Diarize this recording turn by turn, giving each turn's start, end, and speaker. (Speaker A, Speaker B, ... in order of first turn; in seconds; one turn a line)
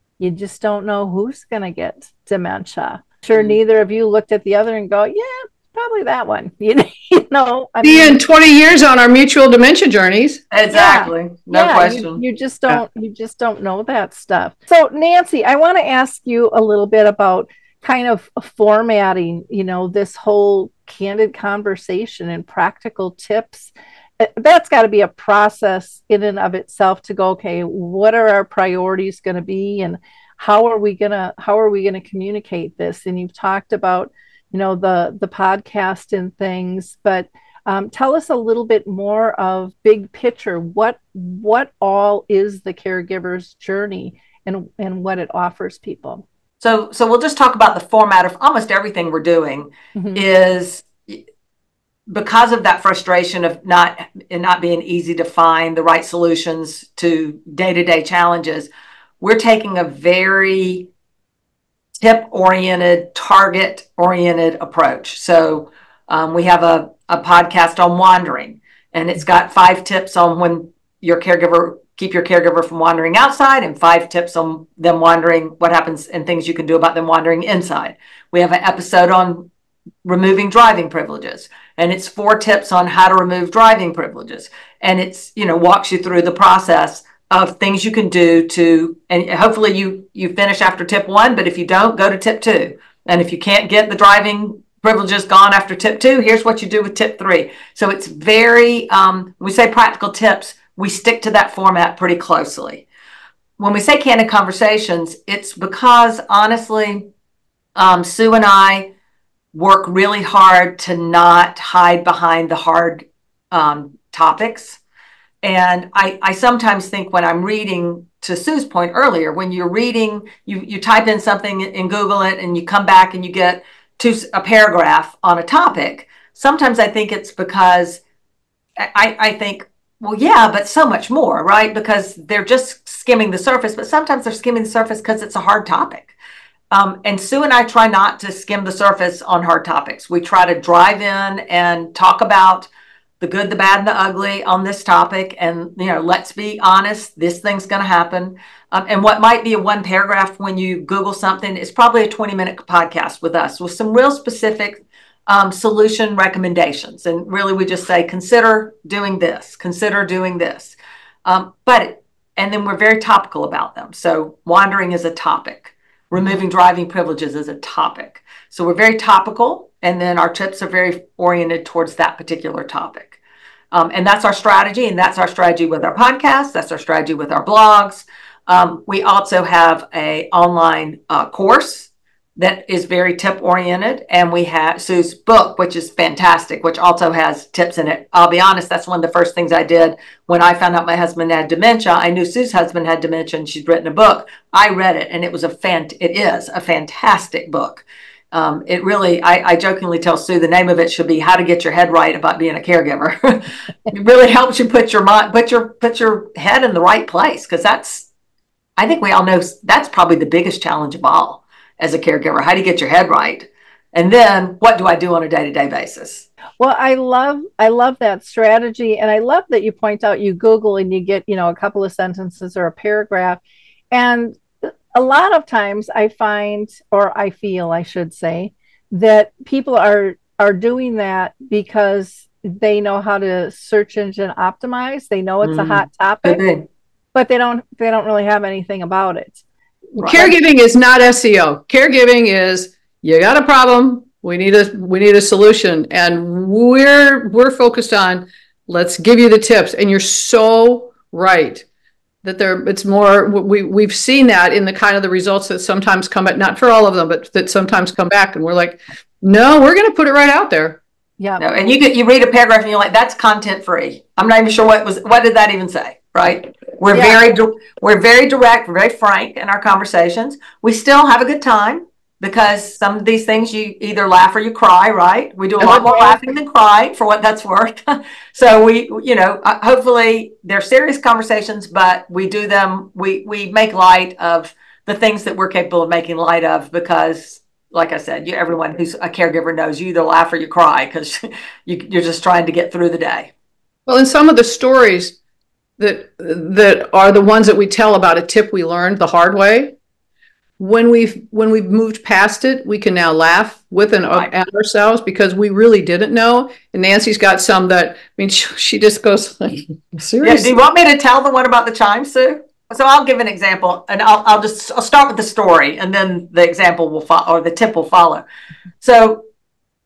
Speaker A: 0.2-8.2
Speaker B: 7.8-10.4
Speaker C: 10.5-12.2
Speaker A: 10.7-46.2
Speaker C: 46.6-51.2
Speaker A: 50.0-50.2
Speaker C: 52.1-58.7
Speaker C: 59.2-60.9
Speaker C: 62.0-79.5
Speaker C: 80.0-102.8
Speaker C: 103.6-107.1
Speaker C: 107.8-108.9
Speaker C: 109.5-114.8
Speaker C: 115.4-128.0
Speaker C: 128.8-136.1
Speaker C: 136.7-142.7
Speaker C: 143.2-173.2
Speaker C: 173.7-208.1
Speaker C: 208.8-216.3
Speaker A: 216.6-223.4
Speaker A: 223.9-236.4
Speaker C: 235.4-236.7
Speaker A: 237.1-239.4
Speaker C: 240.0-240.3
Speaker A: 240.0-240.3
Speaker B: 240.0-251.6
Speaker B: 252.2-260.8
Speaker A: 261.2-261.5
Speaker C: 261.4-293.3
Speaker A: 266.9-267.2
Speaker A: 275.6-276.3
Speaker B: 293.9-295.2
Speaker B: 295.8-299.8
Speaker B: 300.6-310.5
Speaker C: 310.2-318.2
Speaker C: 318.8-319.2